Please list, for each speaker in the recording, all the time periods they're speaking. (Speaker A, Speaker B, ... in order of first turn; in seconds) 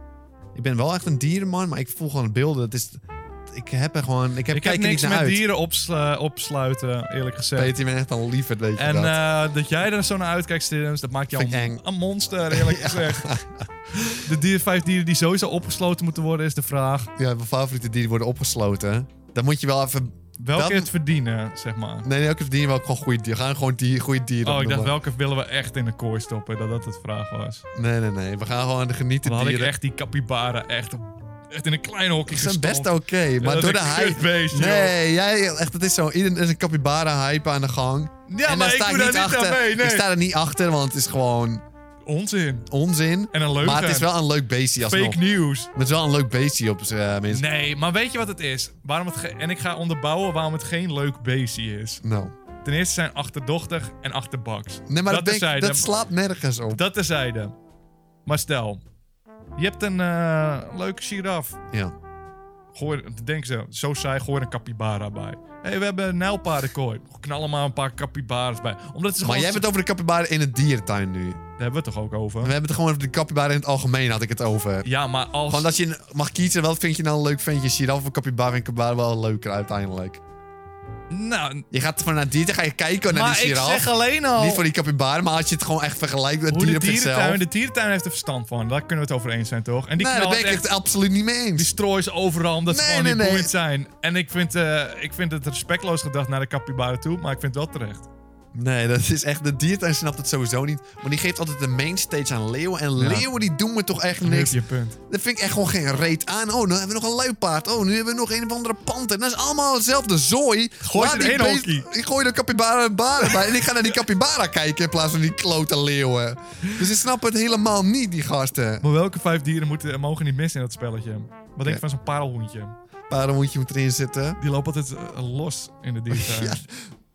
Speaker A: 0.6-5.4, 7.5-9.2, 11.3-11.8, 12.5-14.2, 17.2-20.9, 22.0-25.0, 27.7-29.7, 32.3-41.6, 42.7-45.2, 45.8-47.5, 52.0-52.3, 54.9-56.8, 69.2-71.4, 72.4-74.9, 75.5-80.2, 81.7-87.4, 90.0-91.7, 92.7-93.5, 98.5-118.8, 123.1-124.4, 126.1-126.8
Speaker B: 4.5-7.8, 8.8-13.3, 14.2-17.1, 20.4-22.1, 24.4-27.6, 29.2-35.0, 38.3-40.1, 42.1-42.7, 43.3-44.1, 44.8-45.7, 47.3-52.0, 52.6-55.9, 56.7-57.5, 58.3-58.8, 59.6-61.6, 62.7-69.7, 71.6-72.5, 74.8-75.7, 81.1-81.6, 83.1-84.7, 86.5-90.7, 91.6-98.1, 103.0-103.3, 104.2-105.0, 110.8-111.9, 113.2-114.0, 118.8-122.8, 124.4-126.6